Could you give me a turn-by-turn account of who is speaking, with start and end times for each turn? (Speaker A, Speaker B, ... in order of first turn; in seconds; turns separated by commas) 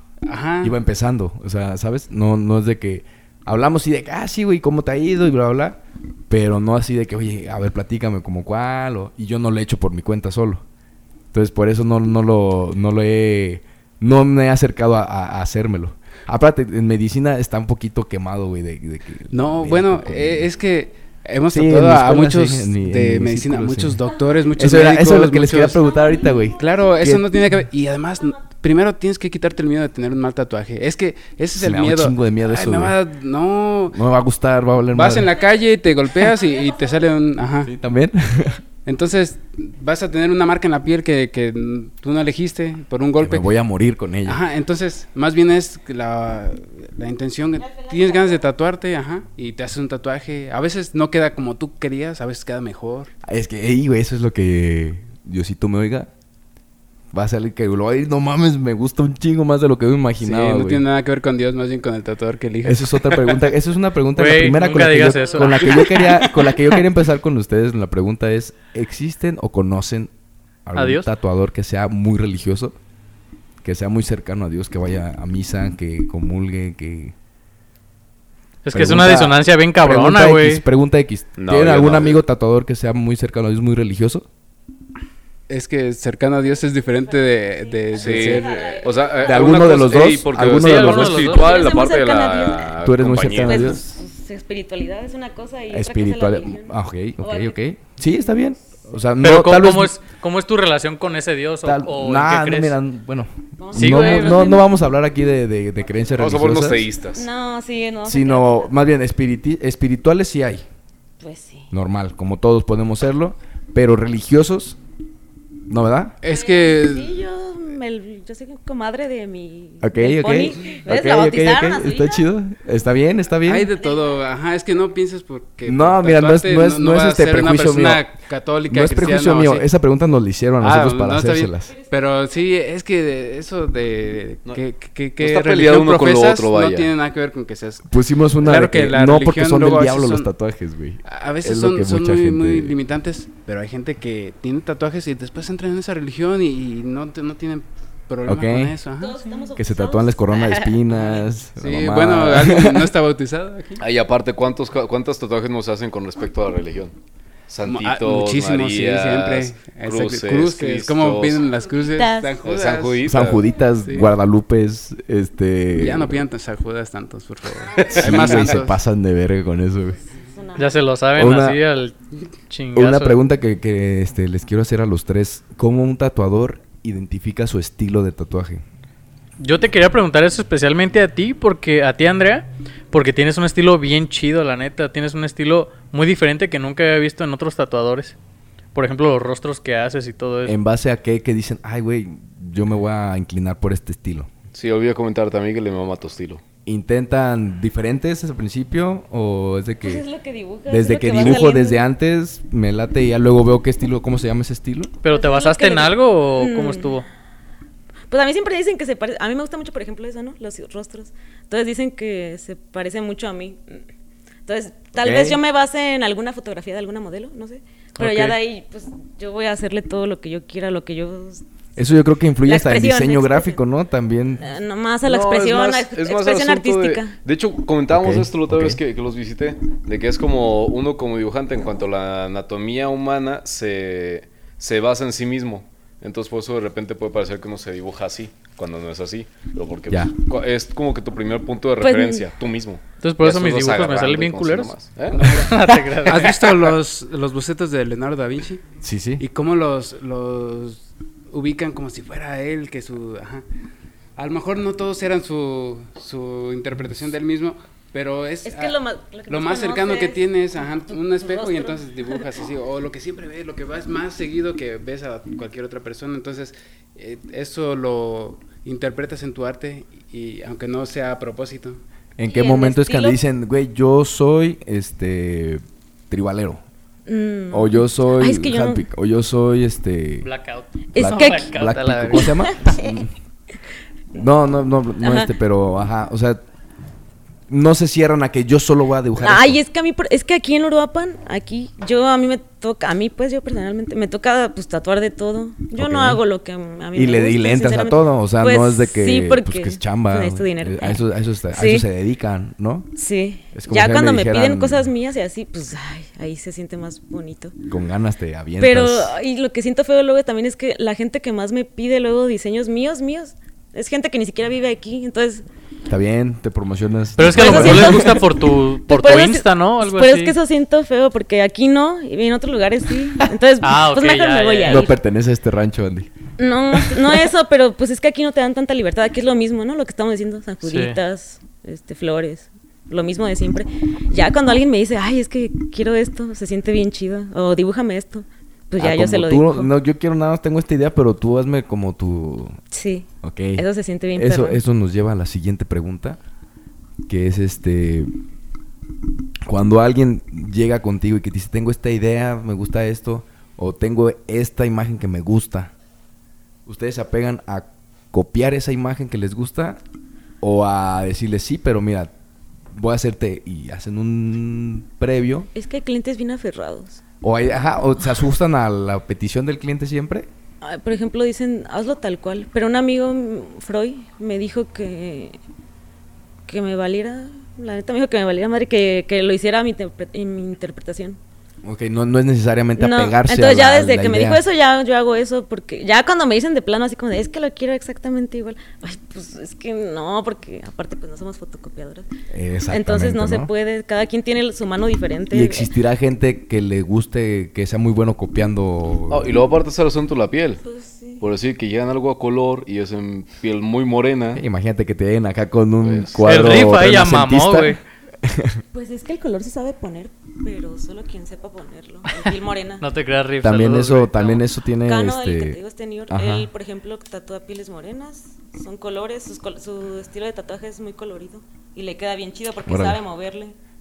Speaker A: 0.3-0.8, Speaker B: 0.6-10.6, Speaker B: 11.3-20.5, Speaker A: 19.3-25.8, Speaker B: 21.5-24.0, Speaker B: 24.6-27.4, Speaker C: 25.8-26.5, Speaker A: 26.6-34.0, Speaker B: 31.6-33.0, Speaker B: 33.9-35.3, Speaker A: 34.9-37.7, Speaker B: 37.6-38.6, Speaker A: 38.9-43.5, Speaker B: 43.2-44.4, Speaker A: 44.3-53.1, Speaker C: 47.6-48.5, Speaker B: 53.2-56.1, Speaker B: 57.1-60.8, Speaker A: 60.2-63.4, Speaker B: 62.6-70.1, Speaker D: 64.2-66.2, Speaker B: 70.7-72.8, Speaker D: 70.8-71.1, Speaker B: 73.6-77.1, Speaker D: 78.6-80.6, Speaker B: 78.7-84.3, Speaker E: 81.4-82.2, Speaker A: 85.5-88.8, Speaker C: 86.4-89.7, Speaker E: 88.0-93.9, Speaker B: 89.2-91.3, Speaker D: 90.5-91.6, Speaker C: 91.2-92.8, Speaker B: 92.8-94.0, Speaker C: 93.4-97.6, Speaker B: 95.7-99.9, Speaker D: 99.2-102.8, Speaker B: 101.6-106.9, Speaker C: 103.6-104.8, Speaker D: 103.7-104.5, Speaker E: 106.2-107.3, Speaker C: 107.1-108.7, Speaker B: 108.0-110.6, Speaker C: 111.2-111.7, Speaker B: 111.7-114.8, Speaker B: 115.7-116.2, Speaker A: 116.2-117.2, Speaker C: 116.3-122.3, Speaker B: 119.8-123.7, Speaker A: 123.5-129.7, Speaker B: 125.6-128.0, Speaker B: 128.7-131.7, Speaker A: 130.6-140.3, Speaker E: 135.2-136.9, Speaker B: 137.9-142.8, Speaker A: 141.1-149.4, Speaker B: 148.3-148.8, Speaker C: 149.0-151.3, Speaker B: 149.6-152.9, Speaker A: 151.6-153.8, Speaker E: 153.8-156.9, Speaker E: 157.5-161.4, Speaker A: 157.6-163.1, Speaker C: 161.7-162.4, Speaker E: 162.4-163.4, Speaker B: 163.0-166.2, Speaker A: 163.8-164.1, Speaker A: 165.8-168.8, Speaker E: 167.7-168.4, Speaker B: 167.9-170.0, Speaker C: 170.1-170.8, Speaker D: 170.6-171.9, Speaker B: 171.2-171.6, Speaker D: 172.5-173.2, Speaker B: 172.8-178.6, Speaker D: 179.4-188.2, Speaker D: 188.8-190.6, Speaker B: 190.4-194.3, Speaker E: 194.5-196.4, Speaker B: 196.6-200.0, Speaker C: 199.8-201.8, Speaker B: 200.7-204.9, Speaker D: 205.0-207.1, Speaker C: 205.1-207.0, Speaker C: 208.1-213.8, Speaker C: 214.5-221.4, Speaker B: 215.0-215.4, Speaker D: 218.0-218.3, Speaker B: 221.8-224.5, Speaker C: 222.4-223.6, Speaker C: 224.4-227.2, Speaker E: 225.0-245.3, Speaker B: 227.9-228.8, Speaker C: 241.8-242.3, Speaker D: 243.0-246.7, Speaker A: 245.1-248.6, Speaker B: 248.8-249.2, Speaker A: 249.2-253.4, Speaker A: 254.2-271.8, Speaker C: 258.4-260.3, Speaker C: 260.9-262.2, Speaker B: 272.2-276.6, Speaker C: 272.3-273.2, Speaker C: 277.1-278.9, Speaker B: 277.5-280.3, Speaker D: 280.2-282.5, Speaker C: 280.9-281.5, Speaker B: 280.9-283.1, Speaker C: 282.1-283.0, Speaker B: 284.1-286.4, Speaker C: 285.0-285.3, Speaker B: 287.5-289.6, Speaker C: 289.2-301.9, Speaker B: 295.8-296.2, Speaker B: 296.9-302.9, Speaker C: 303.0-307.6, Speaker B: 303.5-304.9, Speaker B: 307.6-309.1, Speaker C: 308.6-315.4, Speaker B: 315.9-318.2, Speaker D: 317.2-320.4, Speaker C: 317.4-318.3, Speaker C: 318.9-325.0, Speaker D: 323.6-324.9, Speaker B: 324.6-326.1, Speaker C: 326.4-339.7, Speaker D: 330.6-331.0, Speaker B: 338.8-342.6, Speaker C: 342.7-344.6, Speaker B: 343.2-343.6, Speaker B: 344.1-346.2, Speaker B: 347.1-348.1, Speaker B: 349.5-355.7, Speaker B: 356.6-359.8, Speaker B: 360.4-362.1, Speaker B: 362.7-365.5, Speaker C: 365.5-367.0, Speaker B: 367.2-370.3, Speaker C: 370.6-375.4, Speaker C: 376.5-381.2, Speaker B: 381.6-384.4, Speaker C: 382.8-392.1, Speaker B: 392.3-393.5, Speaker C: 392.7-395.7, Speaker B: 395.3-399.3, Speaker E: 399.1-400.6, Speaker C: 400.6-401.2, Speaker E: 401.2-404.4, Speaker B: 404.4-408.6, Speaker E: 405.8-406.5, Speaker D: 406.2-407.8, Speaker C: 408.7-412.9, Speaker D: 412.8-414.4, Speaker B: 413.4-416.5, Speaker C: 414.9-423.6, Speaker B: 422.7-423.0